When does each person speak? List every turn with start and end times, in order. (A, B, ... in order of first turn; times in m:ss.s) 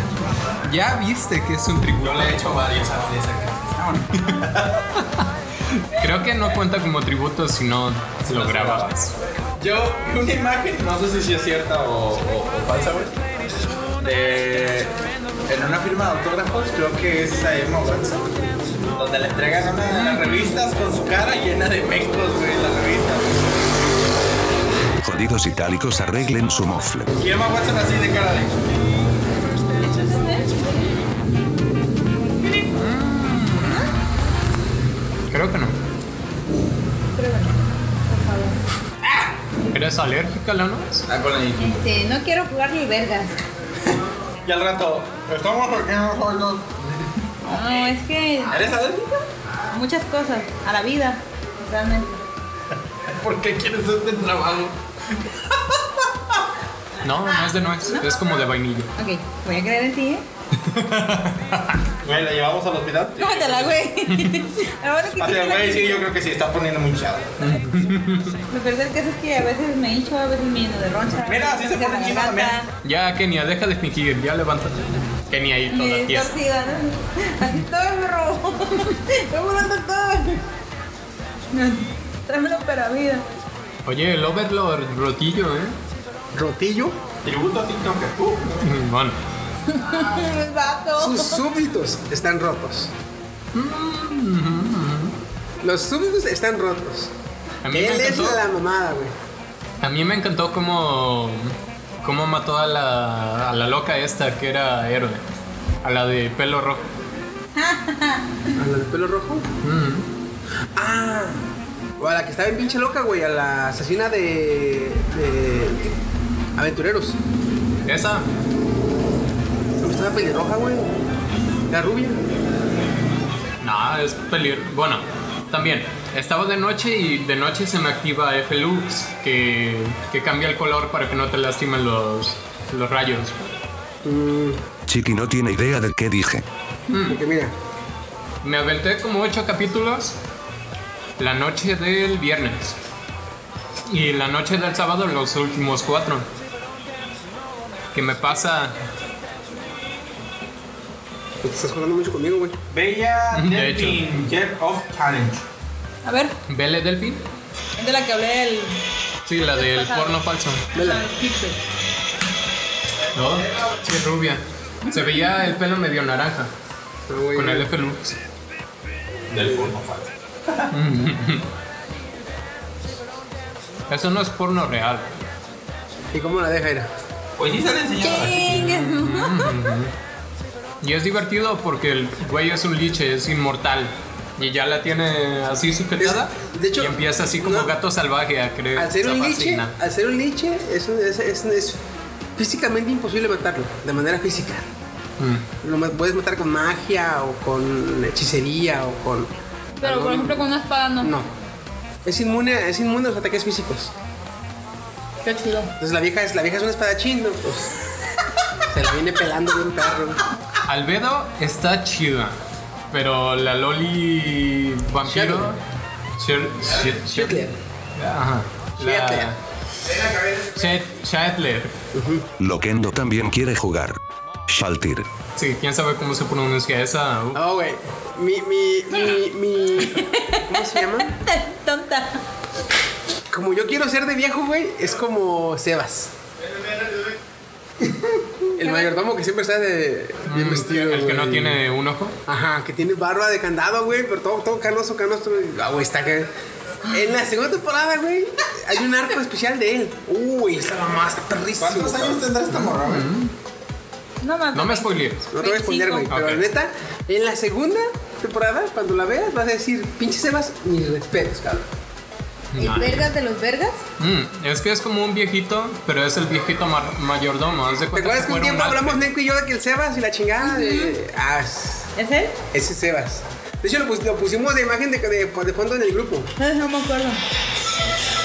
0:00.6-0:02.4 A
0:02.0-0:04.8 B
0:05.0-0:09.1 A
0:08.2-0:08.9 B
0:09.6-0:13.2 B
0:14.0-0:14.9 B
0:15.5-0:18.3 B
0:18.9-0:23.4 B
0:19.9-0:20.6 A
0:25.0-0:27.1 C
0:27.2-0:28.7 B
0:29.9-0:30.6 D
0:32.8-0:33.9 A
0:35.3-0:35.8 A
0:37.2-0:38.6 D
0:39.0-0:39.3 B
0:39.7-0:41.1 A
0:41.1-0:41.8 B
0:41.6-0:43.4 D
0:43.9-0:47.9 B
0:47.4-0:48.8 D
0:48.5-0:49.2 B
0:49.7-0:52.2 D
0:52.9-0:56.4 B
0:57.0-0:58.9 A
0:57.9-0:58.2 D
0:59.0-1:00.2 D
1:00.6-1:01.6 A
1:02.0-1:03.8 B
1:03.2-1:06.1 D
1:04.1-1:04.4 A
1:05.2-1:07.5 B
1:07.4-1:08.4 A
1:08.5-1:12.7 D
1:11.2-1:12.6 B
1:12.8-1:16.3 A
1:15.7-1:20.4 D
1:21.5-1:23.3 D
1:23.9-1:25.8 A
1:26.4-1:27.0 E
1:27.2-1:28.7 B
1:28.6-1:29.2 A
1:29.7-1:31.4 D
1:31.0-1:32.9 E
1:33.5-1:35.2 A
1:35.6-1:37.1 E
1:37.6-1:38.4 A
1:37.7-1:39.1 E
1:39.8-1:45.2 A
1:45.8-1:46.9 A
1:47.6-1:48.4 D
1:48.5-1:49.5 E
1:49.6-1:50.1 A
1:50.8-1:51.5 E
1:52.0-1:55.9 E
1:56.6-1:57.2 E
1:57.9-1:58.3 A
1:59.8-2:01.0 E
2:01.7-2:02.2 E
2:03.6-2:13.5 A
2:14.0-2:14.6 E
2:14.9-2:16.4 C
2:16.9-2:17.2 A
2:17.1-2:17.5 E
2:18.4-2:20.2 A
2:21.2-2:22.8 A
2:23.9-2:26.3 A
2:27.9-2:28.8 A
2:31.4-2:32.6 E
2:32.7-2:35.4 B
2:33.3-2:34.0 A
2:36.0-2:36.4 D
2:36.5-2:37.2 A
2:37.8-2:38.8 D
2:39.3-2:40.7 A
2:39.4-2:40.2 D
2:40.7-2:41.6 D
2:40.7-2:41.0 E
2:43.1-2:46.5 A
2:44.9-2:45.3 D
2:47.1-2:47.7 E
2:47.4-2:48.2 A
2:49.3-2:50.7 B
2:50.7-2:51.5 A
2:53.9-2:55.3 A
2:56.1-2:56.9 E
2:57.4-2:58.7 B
2:58.0-2:59.5 D
2:58.6-2:59.9 A
3:00.8-3:09.8 A
3:06.0-3:07.7 E
3:08.8-3:11.8 E
3:12.4-3:14.7 E
3:15.2-3:15.5 A
3:15.6-3:20.5 E
3:19.8-3:21.1 D
3:21.0-3:21.3 E
3:22.0-3:23.9 E
3:25.2-3:25.7 D
3:25.8-3:27.8 E
3:28.7-3:30.2 E
3:30.7-3:32.4 A
3:32.9-3:35.6 A
3:35.0-3:35.6 E
3:36.2-3:39.4 A
3:37.0-3:37.6 E
3:38.8-3:39.3 E
3:40.5-3:41.7 A
3:41.9-3:42.3 E
3:42.4-3:45.0 C
3:45.4-3:47.4 A
3:47.3-3:51.2 E
3:49.9-3:52.2 D
3:53.3-3:56.1 E
3:58.5-4:01.6 E
3:58.6-3:58.9 D
4:00.3-4:02.2 A
4:02.3-4:06.3 E
4:06.8-4:12.2 E
4:11.6-4:13.1 B
4:12.5-4:13.3 A
4:14.2-4:16.1 D
4:14.5-4:15.3 A
4:15.3-4:21.7 E
4:16.1-4:16.4 A
4:22.5-4:23.1 A
4:22.6-4:23.8 D
4:24.0-4:29.0 A
4:27.9-4:31.9 E
4:30.4-4:31.0 D
4:32.0-4:32.4 D
4:32.5-4:36.3 E
4:36.4-4:37.2 D